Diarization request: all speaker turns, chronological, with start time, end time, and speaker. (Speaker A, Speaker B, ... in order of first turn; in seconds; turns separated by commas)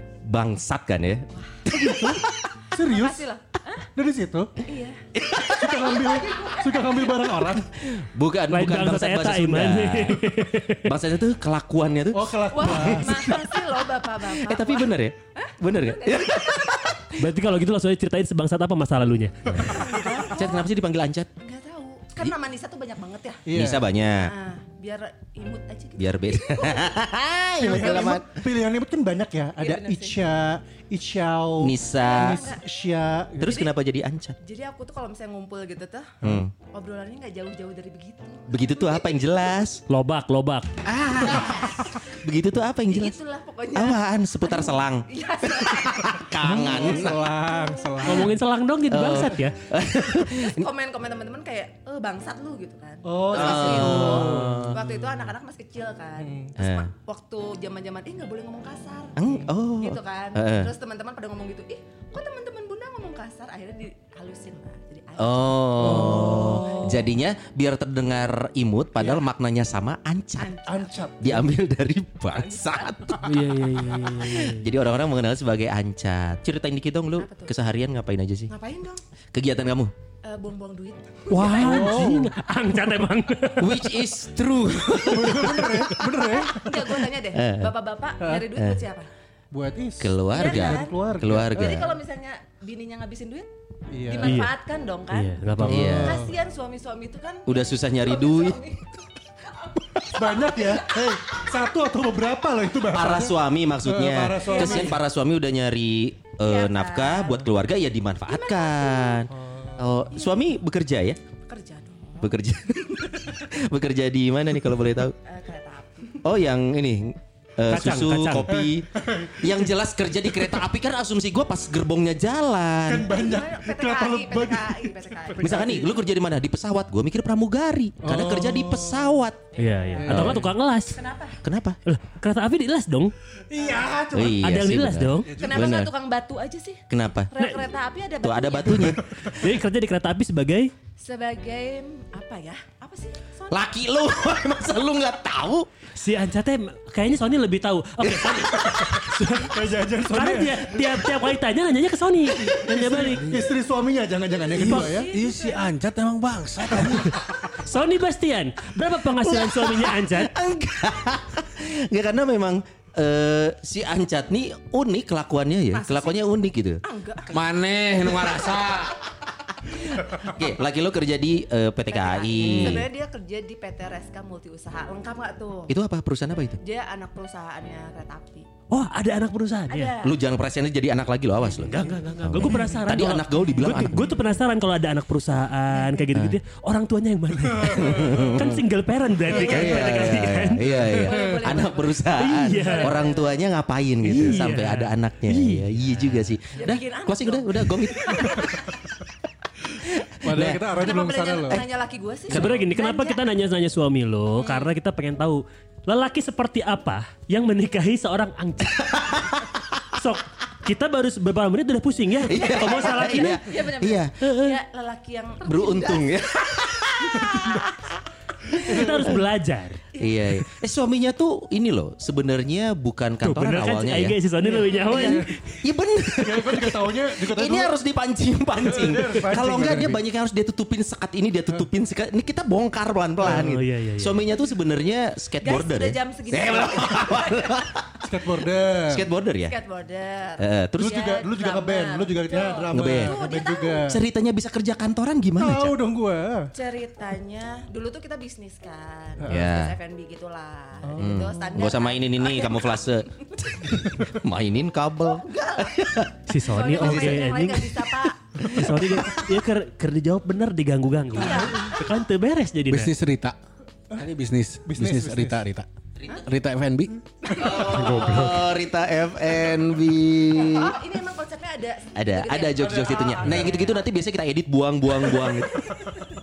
Speaker A: 0.2-2.5, Speaker B: 1.3-2.2, Speaker C: 2.7-3.2, Speaker B: 2.8-3.9, Speaker C: 4.0-4.6, Speaker B: 4.7-5.0, Speaker A: 5.1-5.7, Speaker C: 5.5-7.7, Speaker B: 5.7-7.3, Speaker A: 7.8-10.2, Speaker D: 8.5-10.9, Speaker A: 10.8-13.2, Speaker C: 12.1-13.6, Speaker B: 12.5-16.9, Speaker A: 14.3-17.2, Speaker D: 17.1-19.5, Speaker C: 19.5-20.1, Speaker A: 19.5-21.3, Speaker B: 19.7-20.7, Speaker B: 21.4-23.4, Speaker C: 23.4-23.8, Speaker A: 23.5-24.3, Speaker B: 24.2-27.0, Speaker A: 26.0-28.4, Speaker C: 27.6-33.5, Speaker B: 27.6-28.1, Speaker B: 29.6-30.2, Speaker A: 31.6-32.4, Speaker B: 32.0-32.6, Speaker A: 33.4-34.4, Speaker B: 33.5-33.7, Speaker B: 34.4-39.0, Speaker A: 36.2-36.5, Speaker A: 38.5-39.8, Speaker D: 39.9-40.8, Speaker A: 40.8-43.1, Speaker B: 41.2-41.8, Speaker B: 42.9-47.2, Speaker A: 43.7-47.2, Speaker C: 46.4-48.3, Speaker D: 48.0-49.5, Speaker A: 48.9-50.7, Speaker B: 50.1-67.1, Speaker C: 53.0-54.7, Speaker A: 53.3-54.8, Speaker C: 56.2-56.5, Speaker A: 56.6-56.9, Speaker A: 59.2-60.7, Speaker A: 65.2-70.5, Speaker C: 65.8-66.4, Speaker D: 65.8-66.7, Speaker B: 70.4-71.1, Speaker C: 70.7-71.5, Speaker A: 71.2-73.3, Speaker B: 72.3-73.2, Speaker D: 73.2-74.6, Speaker A: 73.9-78.5, Speaker B: 77.2-77.5, Speaker B: 78.5-79.0, Speaker A: 79.3-79.9, Speaker B: 80.2-82.1, Speaker D: 81.3-84.0, Speaker C: 81.6-82.3, Speaker A: 83.6-86.7, Speaker C: 85.1-86.7, Speaker B: 86.2-89.1, Speaker A: 87.3-87.7, Speaker C: 88.2-88.5, Speaker A: 88.5-88.8, Speaker C: 89.5-91.7, Speaker A: 90.0-91.9, Speaker B: 90.3-91.0, Speaker B: 91.5-93.5, Speaker C: 93.9-94.4, Speaker B: 94.1-99.8, Speaker D: 94.2-94.5, Speaker D: 95.1-96.0, Speaker C: 95.6-96.3, Speaker A: 95.7-96.2, Speaker A: 97.5-98.6, Speaker C: 100.1-105.0, Speaker A: 102.9-111.2, Speaker B: 104.4-105.0, Speaker B: 106.4-107.5, Speaker B: 108.3-109.2, Speaker C: 109.3-109.9, Speaker B: 110.1-110.5, Speaker B: 111.5-112.3, Speaker A: 112.2-115.2, Speaker B: 112.9-113.3, Speaker B: 115.2-116.2, Speaker A: 116.2-123.1, Speaker D: 117.7-118.5, Speaker C: 118.5-119.7, Speaker C: 122.9-125.9, Speaker B: 123.1-125.7, Speaker A: 125.4-129.4, Speaker C: 128.0-129.1, Speaker D: 129.6-131.0, Speaker C: 129.9-130.5, Speaker A: 130.1-130.5, Speaker B: 130.9-131.4, Speaker A: 131.4-131.8, Speaker D: 131.8-133.1, Speaker C: 133.5-134.5, Speaker A: 134.1-135.9, Speaker D: 134.4-135.3, Speaker C: 135.2-135.8, Speaker B: 135.4-139.0, Speaker A: 136.9-137.3, Speaker A: 138.2-139.0, Speaker D: 139.3-140.7, Speaker B: 141.0-143.6, Speaker A: 143.5-145.7, Speaker D: 145.9-153.4, Speaker A: 148.0-149.1, Speaker C: 149.3-150.9, Speaker C: 152.5-155.1, Speaker D: 154.6-154.9, Speaker B: 154.6-155.6, Speaker E: 155.1-157.2, Speaker D: 156.8-160.3, Speaker A: 159.2-166.8, Speaker B: 165.7-167.4, Speaker E: 167.3-169.1, Speaker A: 169.7-172.9, Speaker B: 171.9-175.7, Speaker A: 175.7-176.6, Speaker B: 176.6-178.5, Speaker D: 178.7-179.9, Speaker B: 179.7-180.2, Speaker A: 180.0-184.1, Speaker D: 181.6-190.7, Speaker B: 185.7-186.1, Speaker A: 187.6-188.6, Speaker C: 187.7-188.4, Speaker B: 189.3-190.2, Speaker A: 189.3-198.5, Speaker C: 190.6-191.6, Speaker B: 190.8-193.3, Speaker D: 192.1-193.0, Speaker D: 194.0-196.3, Speaker B: 196.5-198.7, Speaker A: 199.8-200.7, Speaker C: 200.2-201.6, Speaker B: 200.8-203.2, Speaker D: 202.3-208.9, Speaker A: 202.3-202.6, Speaker B: 204.3-204.7, Speaker A: 208.8-209.6, Speaker D: 209.9-213.5, Speaker A: 212.3-214.3, Speaker B: 212.3-216.1, Speaker D: 214.2-214.5, Speaker A: 215.4-217.6, Speaker B: 217.1-217.8, Speaker A: 218.5-219.2, Speaker D: 218.6-219.9, Speaker C: 218.7-219.0, Speaker B: 219.9-220.3, Speaker A: 220.0-224.1, Speaker D: 223.2-225.6, Speaker C: 224.4-225.3, Speaker B: 224.6-225.2, Speaker A: 225.6-238.0, Speaker C: 226.2-227.7, Speaker C: 228.6-230.0, Speaker D: 233.2-234.2, Speaker B: 235.4-237.6, Speaker C: 238.0-239.0, Speaker A: 238.9-239.5, Speaker B: 239.4-243.9, Speaker A: 240.4-241.0, Speaker C: 240.8-244.0, Speaker A: 242.7-243.2, Speaker A: 243.9-245.7, Speaker C: 245.4-246.5, Speaker B: 246.5-253.6, Speaker C: 249.2-249.5, Speaker A: 249.3-249.7, Speaker C: 250.8-251.7, Speaker A: 251.0-257.9, Speaker B: 255.1-258.2, Speaker D: 256.3-257.8, Speaker C: 258.4-259.0, Speaker D: 258.4-262.9, Speaker B: 261.1-261.8, Speaker E: 262.7-263.4, Speaker E: 263.9-265.7, Speaker C: 264.6-265.4, Speaker E: 266.2-266.9, Speaker B: 267.3-267.7, Speaker C: 267.3-268.3, Speaker A: 267.3-270.8, Speaker E: 268.0-268.3, Speaker B: 270.3-273.9, Speaker A: 271.9-275.9, Speaker C: 272.6-273.5